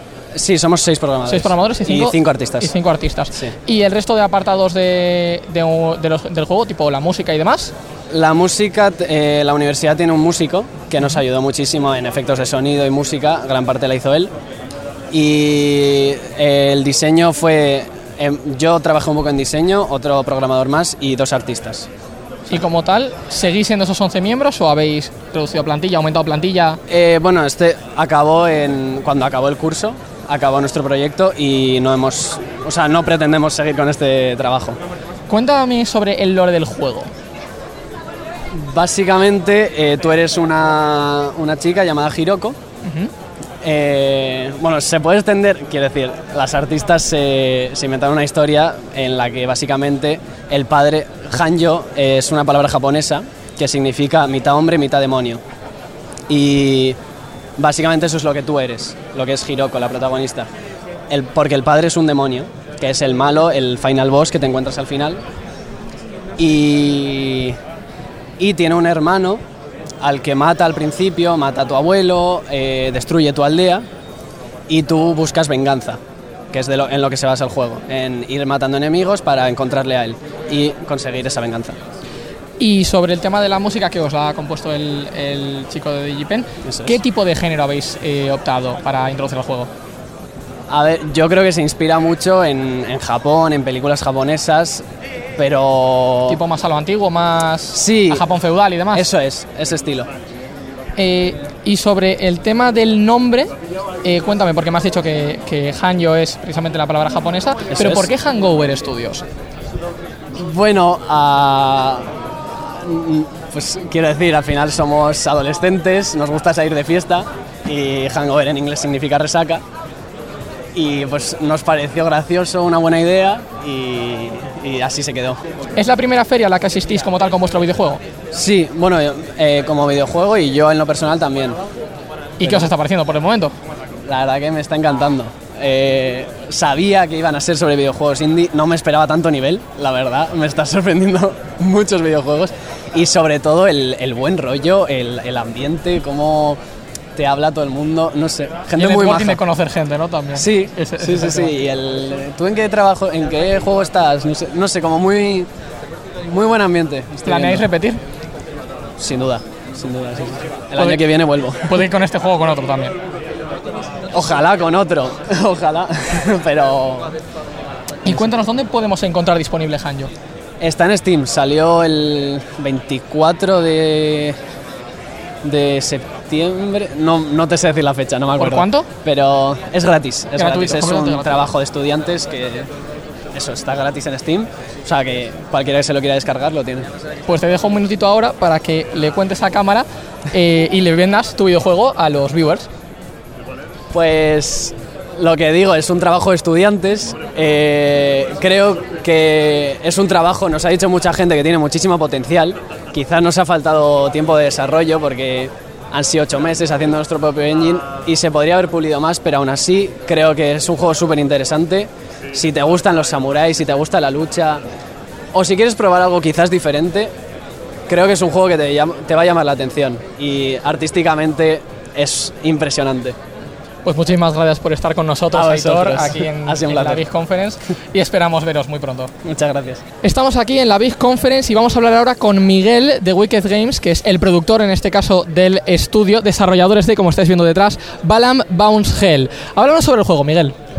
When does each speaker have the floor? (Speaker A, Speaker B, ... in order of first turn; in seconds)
Speaker A: 0.3-2.7, 8.1-14.3, 15.1-21.9, 26.9-34.8, 38.5-42.6, 43.6-55.4, 56.3-57.0, 57.6-60.5, 61.1-65.2, 66.4-67.6, 68.4-69.4, 70.0-73.8, 74.7-76.0, 76.5-81.8, 86.7-87.0, 90.7-94.8, 95.4-96.4, 97.7-98.2, 98.9-100.1, 107.7-108.1, 110.3-112.1, 112.8-119.6, 120.7-125.4, 128.3-131.6, 132.4-132.7, 134.0-146.6, 147.2-149.4, 150.3-155.5, 156.2-157.7, 159.0-161.8, 164.1-167.1, 170.6-174.4, 175.4-182.7, 183.3-186.9, 193.9-214.6, 215.3-217.1, 217.9-223.2, 225.3-227.0, 229.2-229.8
Speaker B: 1.3-7.7, 22.5-26.8, 35.3-37.1, 42.8-43.1, 82.6-89.7, 96.3-99.0, 101.0-103.5, 104.0-109.2, 125.8-128.0, 132.4-133.5, 148.7-151.5, 157.2-158.0, 161.6-162.9, 168.0-170.1, 178.4-178.9, 180.4-181.4, 187.3-192.7, 223.8-229.1, 230.0-240.6